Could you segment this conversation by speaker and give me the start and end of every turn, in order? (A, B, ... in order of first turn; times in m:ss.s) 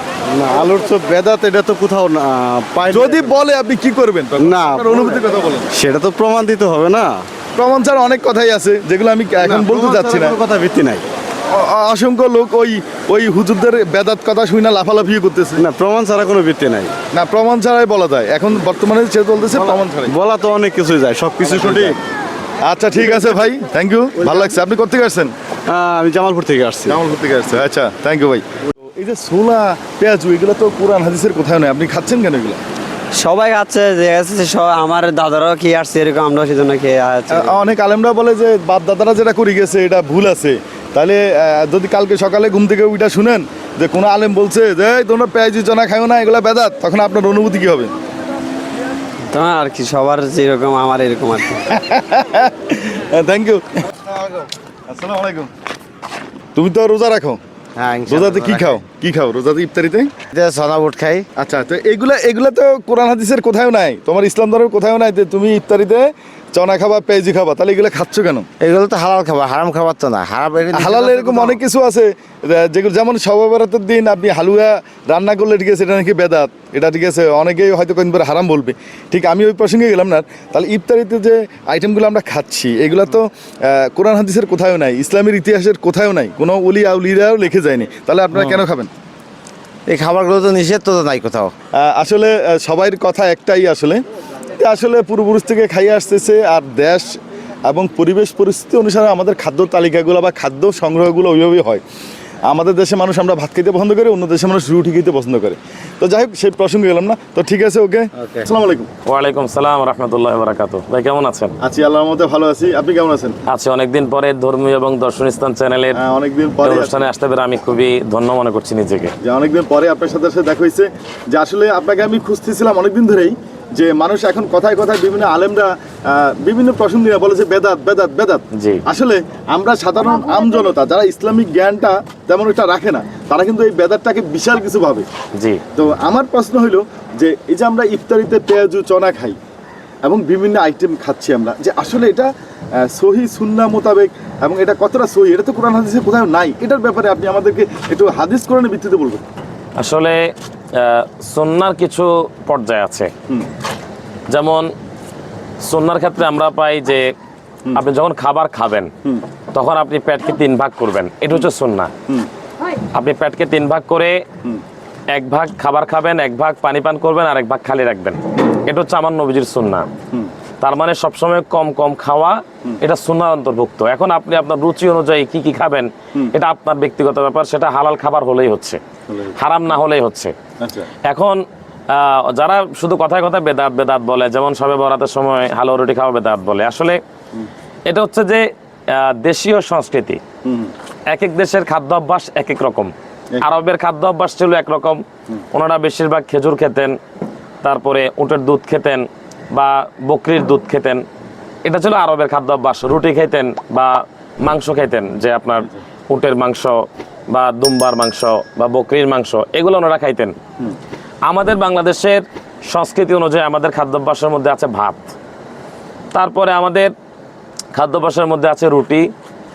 0:00.3-0:03.3 A
0:02.9-0:05.7 B
0:04.4-0:07.3 A
0:07.5-0:10.4 B
0:09.4-0:11.0 A
0:11.5-0:15.6 B
0:15.6-0:16.9 A
0:17.1-0:20.1 B
0:19.6-0:22.0 A
0:21.5-0:22.0 B
0:22.6-0:25.3 B
0:23.0-0:23.3 A
0:24.2-0:24.5 A
0:25.7-0:27.0 A
0:26.9-0:28.4 B
0:29.0-0:32.6 B
0:33.1-0:37.5 C
0:37.3-0:47.9 B
0:49.3-0:51.6 C
0:51.7-0:55.5 B
0:56.6-0:57.4 B
0:57.8-0:58.8 D
0:58.0-1:00.1 B
1:00.3-1:01.2 D
1:01.4-1:08.5 B
1:08.6-1:11.6 D
1:10.7-1:28.9 B
1:28.3-1:28.6 D
1:29.9-1:31.5 D
1:31.7-1:34.0 B
1:34.6-1:41.8 B
1:42.5-1:48.9 B
1:49.0-1:51.5 E
1:51.6-1:53.3 B
1:53.5-1:56.0 E
1:56.0-1:57.1 B
1:56.6-1:59.1 E
1:59.2-2:15.1 B
2:08.5-2:08.8 E
2:15.4-2:15.6 E
2:15.7-2:19.4 B
2:20.0-2:29.2 B
2:29.8-2:33.1 E
2:34.3-2:34.7 E
2:35.6-2:37.1 E
2:37.7-2:38.9 E
2:39.5-2:41.9 E
2:42.9-2:44.2 E
2:45.1-2:49.8 E
2:50.6-2:58.8 E
2:59.4-3:00.3 E
3:00.6-3:00.9 B
3:01.1-3:01.4 E
3:01.9-3:07.0 E
3:07.8-3:10.2 E
3:10.4-3:10.7 B
3:11.1-3:17.0 E
3:17.6-3:21.0 E
3:21.6-3:30.3 E
3:31.2-3:35.1 E
3:36.1-3:36.9 E
3:37.7-3:39.0 E